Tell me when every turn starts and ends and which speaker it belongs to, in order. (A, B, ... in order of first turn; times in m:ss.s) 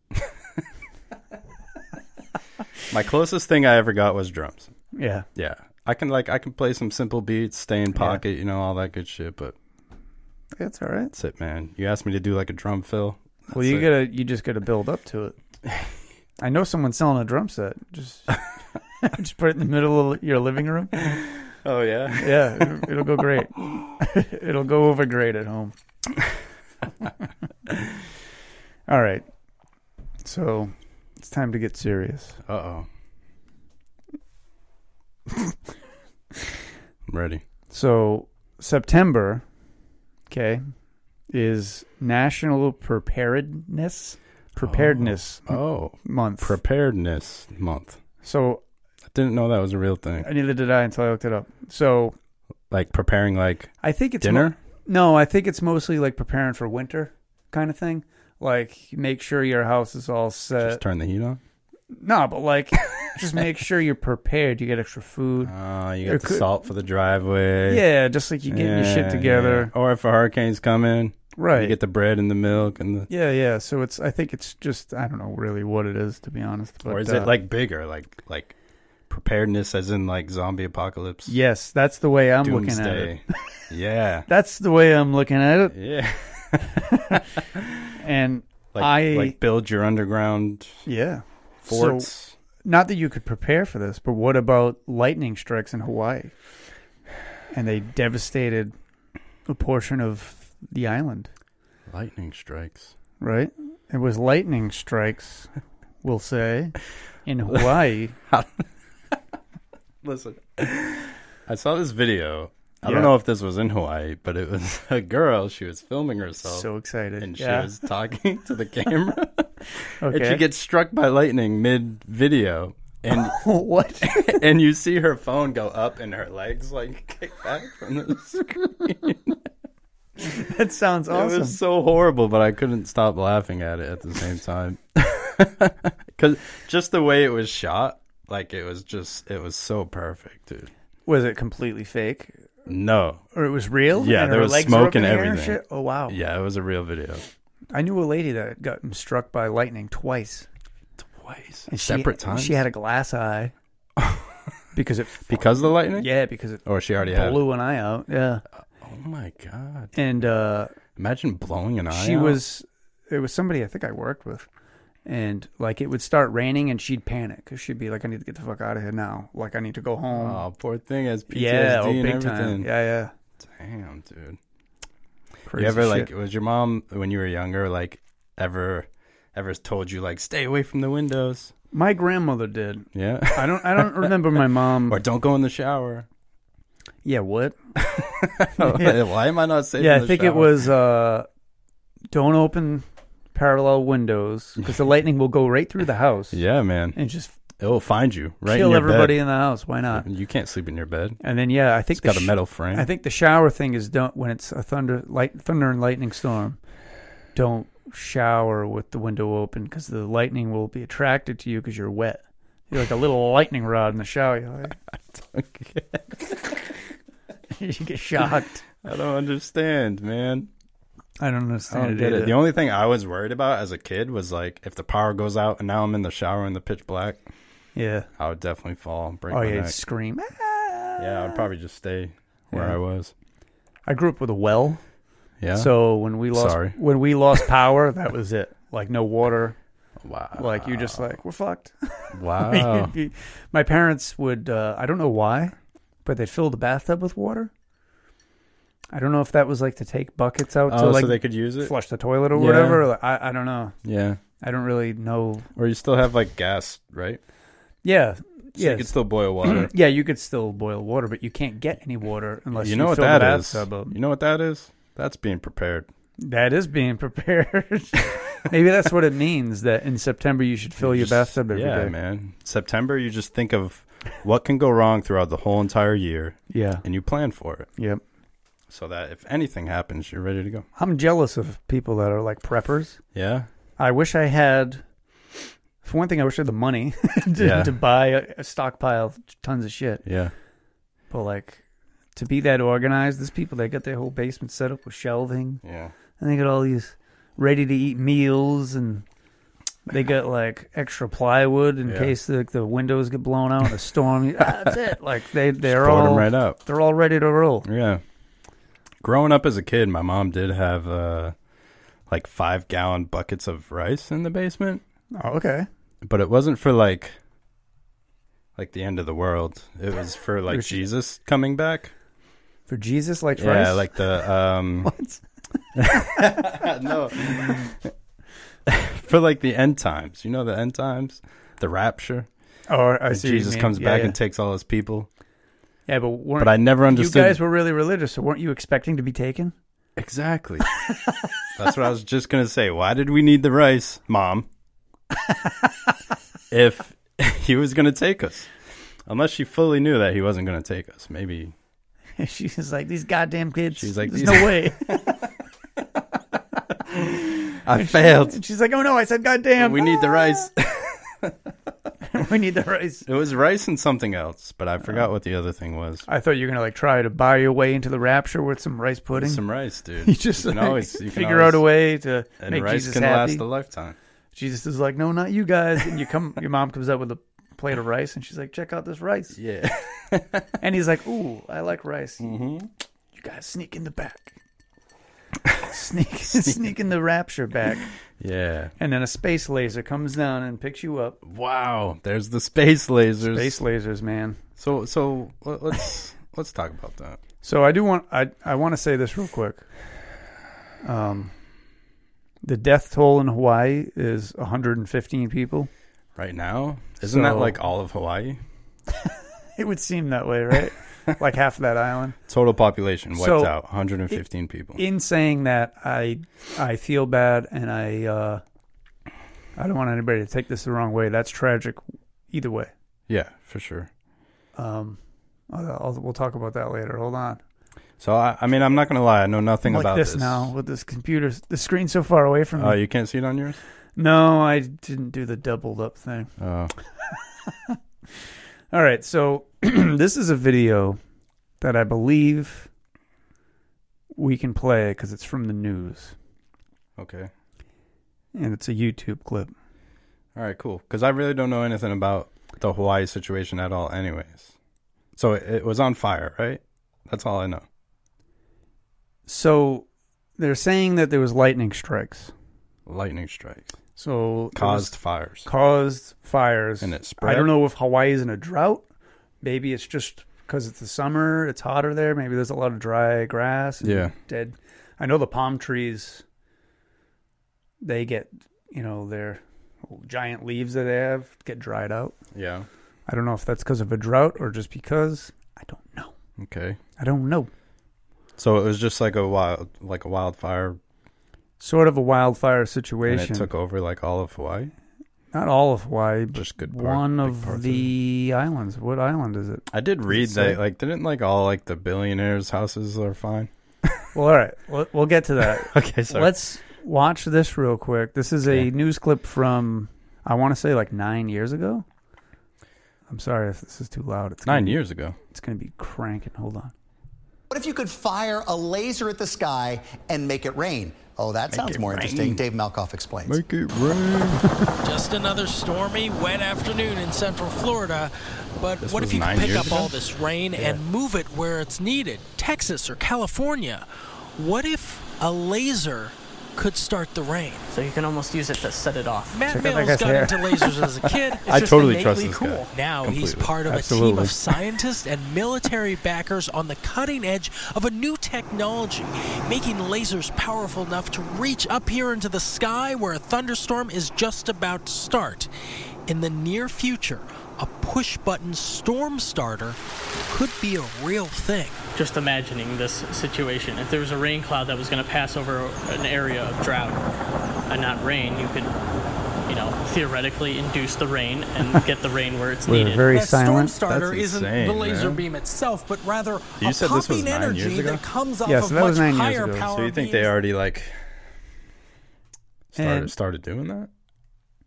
0:02.9-0:04.7 A
0:04.9-0:05.3 B
0:05.3-0:09.5 A
0:07.9-0:08.2 B
0:10.6-0:11.1 B
0:11.1-0:13.9 A
0:13.5-0:15.4 B
0:15.6-0:15.9 A
0:16.4-0:18.4 B
0:19.0-0:21.0 B
0:21.0-0:23.4 A
0:22.2-0:25.7 B
0:28.9-0:29.2 B
0:30.2-0:32.4 B
0:32.4-0:32.9 A
0:37.1-0:37.4 A
0:37.7-0:39.4 B
0:40.3-0:40.6 B
0:41.3-0:46.6 B
0:44.6-0:48.0 A
0:48.2-0:48.6 B
0:49.1-0:50.3 A
0:50.2-0:52.1 B
0:52.7-0:54.6 A
0:53.8-1:00.8 B
1:00.6-1:01.4 A
1:01.9-1:05.5 B
1:05.4-1:07.8 A
1:06.0-1:06.5 B
1:07.7-1:09.7 B
1:08.4-1:13.1 A
1:11.4-1:11.8 B
1:13.1-1:17.3 B
1:16.8-1:18.5 A
1:19.1-1:21.3 A
1:21.3-1:23.2 B
1:22.4-1:24.3 A
1:24.3-1:25.8 B
1:25.7-1:27.9 A
1:26.8-1:27.2 B
1:28.0-1:29.4 B
1:28.7-1:30.8 A
1:30.8-1:32.1 B
1:31.6-1:32.4 A
1:32.6-1:36.3 B
1:37.5-1:38.7 B
1:39.5-1:41.3 B
1:41.9-1:42.9 A
1:43.2-1:45.5 B
1:46.0-1:48.2 B
1:48.3-1:49.2 A
1:50.0-1:56.7 A
1:52.8-1:53.1 B
1:56.4-1:57.7 B
1:57.2-2:03.4 A
2:00.0-2:00.4 B
2:03.1-2:04.4 B
2:04.0-2:09.4 A
2:10.2-2:11.6 B
2:11.1-2:20.7 A
2:21.0-2:22.5 B
2:22.6-2:23.2 A
2:23.3-2:26.2 B
2:23.9-2:27.2 A
2:27.7-2:30.5 B
2:31.0-2:32.6 A
2:31.7-2:33.5 B
2:34.0-2:34.5 A
2:34.7-2:38.4 B
2:35.3-2:36.1 A
2:36.6-2:37.4 A
2:38.7-2:39.9 A
2:39.9-2:40.7 B
2:41.0-2:42.4 A
2:41.9-2:44.5 B
2:45.0-2:50.4 B
2:50.1-2:52.7 A
2:51.3-2:53.1 B
2:53.4-2:54.4 A
2:55.5-2:56.1 B
2:55.5-3:01.5 A
3:01.7-3:05.0 B
3:02.9-3:06.1 A
3:07.0-3:07.6 B
3:07.8-3:10.7 A
3:08.6-3:09.0 B
3:09.8-3:11.3 B
3:12.1-3:16.4 B
3:16.3-3:17.0 A
3:16.9-3:17.3 B
3:17.6-3:19.2 A
3:18.4-3:20.0 B
3:19.9-3:21.2 A
3:21.2-3:26.6 B
3:21.9-3:22.9 A
3:27.3-3:34.8 B
3:34.9-3:36.6 A
3:37.5-3:38.6 B
3:38.8-3:40.5 A
3:41.2-3:42.4 B
3:41.7-3:47.3 A
3:47.8-3:48.1 B
3:48.2-3:49.8 A
3:49.3-3:51.4 B
3:51.0-3:53.1 A
3:52.5-3:52.8 B
3:53.8-3:54.8 B
3:55.4-3:55.7 A
3:55.5-3:59.6 B
3:56.3-3:56.8 A
4:00.0-4:01.1 A
4:00.4-4:07.5 B
4:02.1-4:02.9 A
4:08.9-4:13.8 B
4:10.7-4:11.7 A
4:12.3-4:12.9 A
4:13.8-4:14.2 A
4:14.4-4:15.5 B
4:15.6-4:17.2 A
4:17.8-4:24.0 B
4:18.6-4:19.7 A
4:22.5-4:25.9 A
4:26.2-4:31.9 B
4:30.8-4:37.7 A
4:36.5-4:36.8 B
4:37.8-4:38.0 B
4:38.7-4:40.6 A
4:40.8-4:43.0 B
4:43.1-4:43.5 A
4:43.8-4:44.8 B
4:45.8-4:50.0 B
4:47.4-4:47.7 A
4:50.0-4:50.3 A
4:51.1-4:51.6 B
4:52.1-4:55.6 B
4:55.6-4:55.9 A
4:56.2-4:59.0 B
4:59.9-5:07.6 B
5:01.8-5:02.1 A
5:05.6-5:06.6 A
5:07.6-5:08.0 A
5:09.0-5:11.3 A
5:12.1-5:14.8 A
5:15.1-5:15.7 B
5:16.0-5:17.2 A
5:18.6-5:21.9 A
5:20.5-5:20.8 B
5:22.7-5:24.2 B
5:23.4-5:24.9 A
5:24.8-5:25.2 B
5:25.8-5:27.9 A
5:25.8-5:26.5 B
5:28.6-5:32.3 A
5:32.7-5:34.2 B
5:33.1-5:35.1 A
5:35.9-5:39.5 B
5:36.4-5:37.4 A
5:40.0-5:40.7 A
5:41.5-5:44.5 A
5:46.5-5:48.5 A
5:49.0-5:51.5 A
5:52.2-5:55.2 B
5:53.7-5:55.3 A
5:56.9-5:58.4 A
5:57.7-6:00.5 B
5:59.6-6:01.5 A
6:02.1-6:03.0 B
6:03.0-6:06.0 A
6:06.1-6:09.4 B
6:09.1-6:11.7 A
6:10.0-6:13.4 B
6:12.4-6:14.0 A
6:14.3-6:19.4 B
6:19.3-6:20.6 A
6:20.6-6:22.3 B
6:22.2-6:22.7 A
6:23.1-6:24.3 B
6:25.6-6:27.9 B
6:26.2-6:26.7 A
6:28.2-6:28.7 A
6:28.8-6:31.2 B
6:31.2-6:33.6 A
6:33.2-6:34.4 B
6:34.6-6:37.2 A
6:37.4-6:39.6 B
6:40.8-6:41.3 B
6:42.4-6:45.7 B
6:46.2-6:48.4 A
6:47.0-6:47.6 B
6:49.0-6:52.2 B
6:52.3-6:54.8 A
6:53.2-6:53.5 B
6:54.8-6:58.4 B
6:59.6-7:02.7 B
7:03.1-7:03.9 A
7:04.6-7:05.0 B
7:05.5-7:07.4 B
7:08.0-7:10.5 A
7:09.6-7:12.8 B
7:12.6-7:13.6 A
7:14.0-7:16.3 B
7:16.4-7:16.7 A
7:17.1-7:21.0 B
7:21.6-7:22.7 B
7:24.1-7:26.1 B
7:27.0-7:27.3 A
7:28.3-7:29.5 B
7:30.4-7:34.5 A
7:35.1-7:37.6 A
7:39.3-7:39.8 B
7:40.4-7:42.3 B
7:42.8-7:43.8 A
7:44.0-7:44.9 B
7:44.5-7:45.5 A
7:45.4-7:48.8 B
7:46.8-7:47.5 A
7:49.4-7:56.2 B
7:53.8-7:54.1 A
7:57.8-8:02.2 B
8:02.3-8:02.7 A
8:03.1-8:06.1 B
8:06.4-8:06.8 A
8:07.0-8:07.5 B
8:08.4-8:10.8 A
8:11.6-8:13.5 B
8:13.0-8:14.7 A
8:15.3-8:20.6 B
8:16.3-8:17.9 A
8:19.7-8:24.0 A
8:24.1-8:31.8 B
8:25.4-8:26.3 A
8:28.4-8:28.7 A
8:33.1-8:36.7 B
8:34.4-8:35.2 A
8:37.5-8:43.4 C
8:41.5-8:42.4 A
8:43.2-8:44.5 A
8:44.8-8:57.7 D
8:48.8-8:49.9 A
8:50.6-8:50.8 B
8:57.7-8:59.4 E
8:59.3-9:15.5 D
8:59.5-9:00.6 B
9:01.5-9:03.6 A
9:01.5-9:02.0 E
9:03.6-9:04.4 B
9:16.1-9:21.8 D
9:21.9-9:27.0 E
9:27.7-9:28.7 E
9:29.4-9:33.1 E
9:32.6-9:33.7 B
9:33.1-9:40.3 D
9:33.8-9:35.2 A
9:36.6-9:38.0 A
9:38.4-9:39.7 B
9:39.7-9:41.2 A
9:42.7-9:43.9 A
9:42.8-9:43.1 B